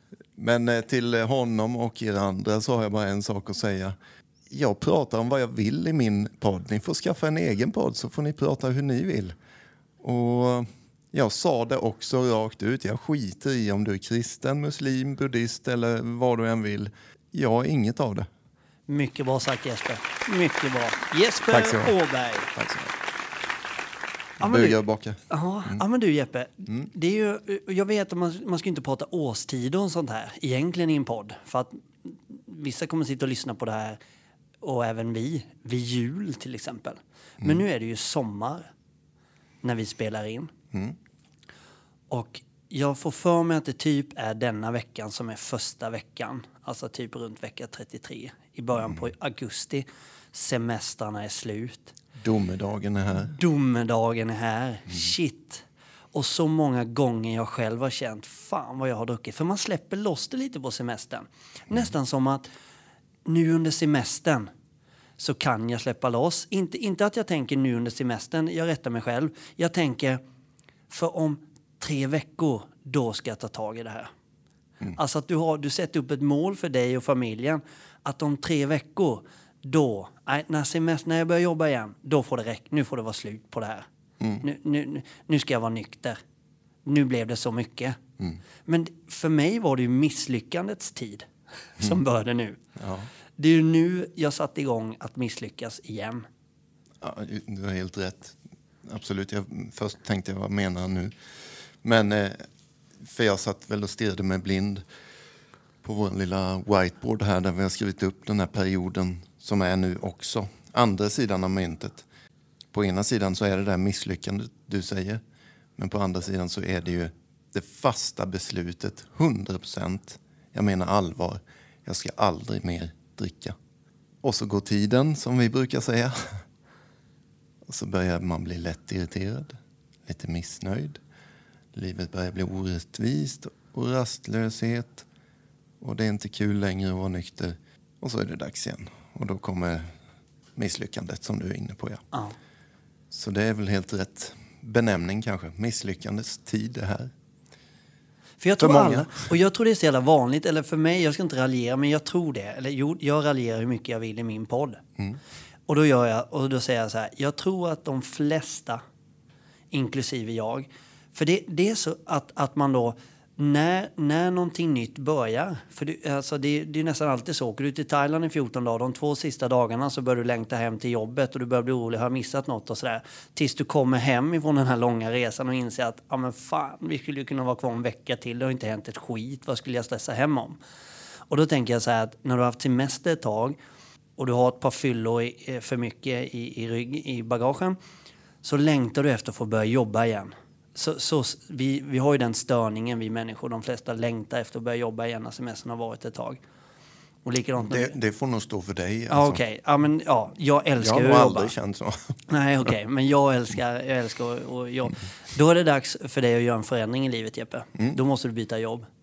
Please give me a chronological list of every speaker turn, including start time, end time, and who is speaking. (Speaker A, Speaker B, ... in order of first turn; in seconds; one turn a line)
Speaker A: 0.4-4.0
Speaker A: 4.5-9.4
Speaker A: 10.0-18.3
Speaker B: 18.9-22.5
Speaker A: 21.5-21.9
Speaker A: 22.6-22.9
Speaker A: 24.4-25.8
Speaker B: 24.4-34.0
Speaker B: 34.6-38.7
Speaker B: 39.6-40.5
Speaker A: 40.7-41.0
Speaker B: 42.1-51.9
Speaker A: 52.2-53.4
Speaker B: 53.2-62.5
Speaker B: 63.3-64.5
Speaker B: 65.2-70.2
Speaker B: 70.9-74.1
Speaker B: 75.0-83.9
Speaker A: 84.2-84.5
Speaker B: 84.4-86.2
Speaker B: 86.8-88.0
Speaker B: 88.7-92.6
Speaker A: 92.8-93.1
Speaker B: 93.4-96.3
Speaker A: 97.0-101.2
Speaker A: 101.8-102.5
Speaker A: 103.0-104.8
Speaker A: 105.8-112.1
Speaker A: 112.7-115.2
Speaker A: 115.8-123.6
Speaker A: 124.2-126.4
Speaker A: 127.7-131.0
Speaker A: 131.7-135.1
Speaker A: 135.8-139.9
Speaker A: 140.6-142.0
Speaker A: 143.1-147.1
Speaker B: 148.4-154.8
Speaker A: 148.6-149.2
Speaker B: 155.7-158.8
Speaker B: 159.7-180.6
Speaker B: 181.3-183.6
Speaker B: 184.2-187.8
Speaker B: 188.4-196.4
Speaker B: 197.2-197.9
Speaker A: 197.6-199.4
Speaker B: 199.1-201.5
Speaker A: 200.8-202.1
Speaker B: 202.3-208.9